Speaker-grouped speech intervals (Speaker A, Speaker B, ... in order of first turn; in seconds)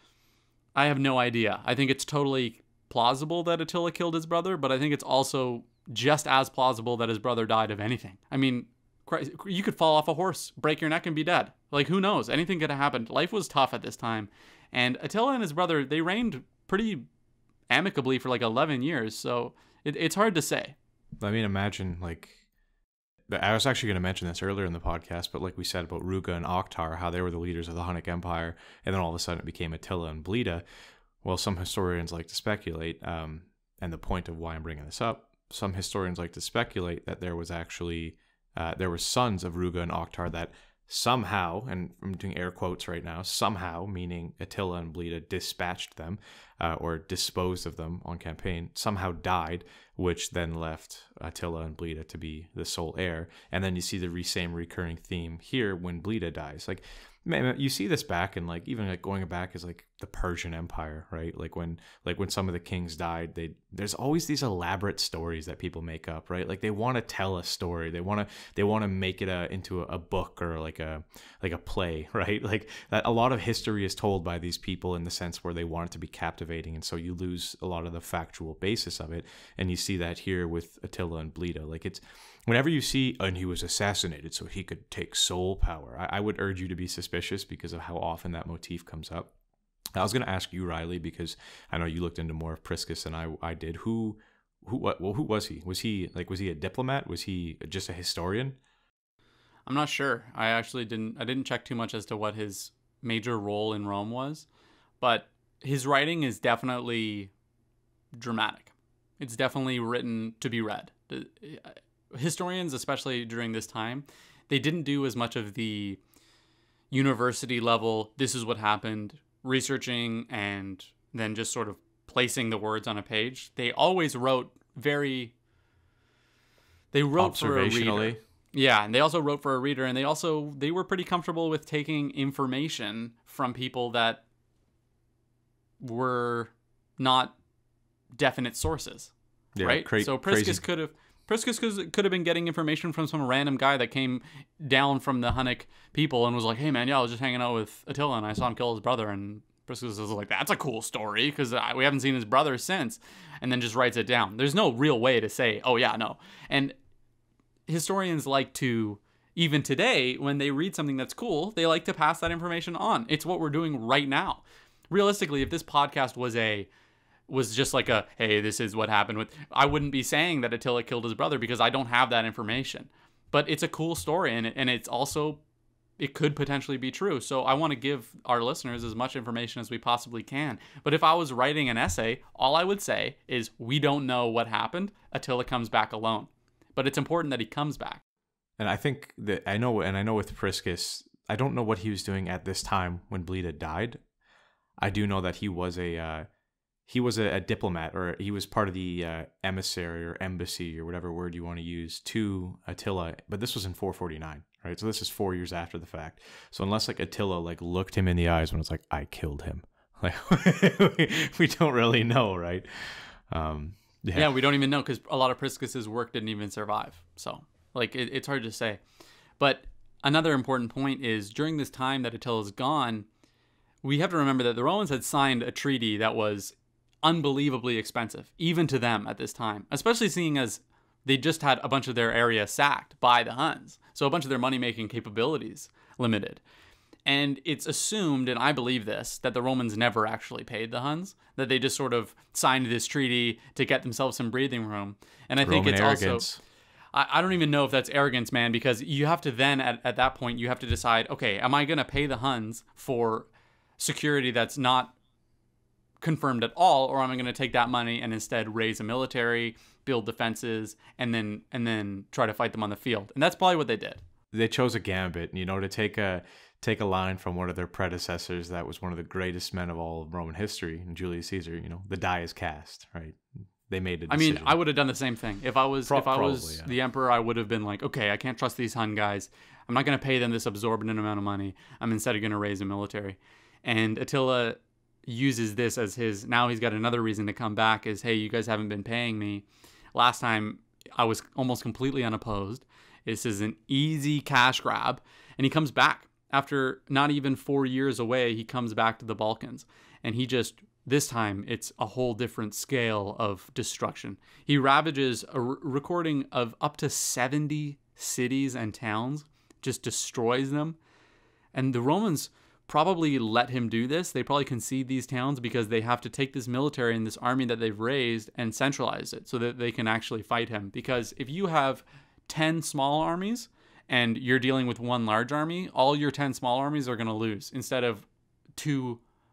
Speaker A: 0.7-17.1, 17.7-20.7, 99.7-104.5, 105.0-107.3, 108.1-116.0, 116.9-125.3, 126.9-134.2, 135.8-137.3, 138.1-156.7, 157.7-166.7, 167.3-175.4, 176.0-188.0, 214.1-218.8, 219.4-223.1, 223.8-236.4, 237.1-246.2, 246.9-254.9, 256.0-264.0, 274.1-310.8, 311.5-328.1, 328.6-329.0
Speaker B: 21.2-22.4, 23.3-30.6, 31.2-89.3, 89.9-98.6, 127.2-128.2, 139.5-140.6, 188.6-194.0, 194.8-196.3, 196.9-214.4, 245.4-246.4, 264.3-274.6, 275.9-276.7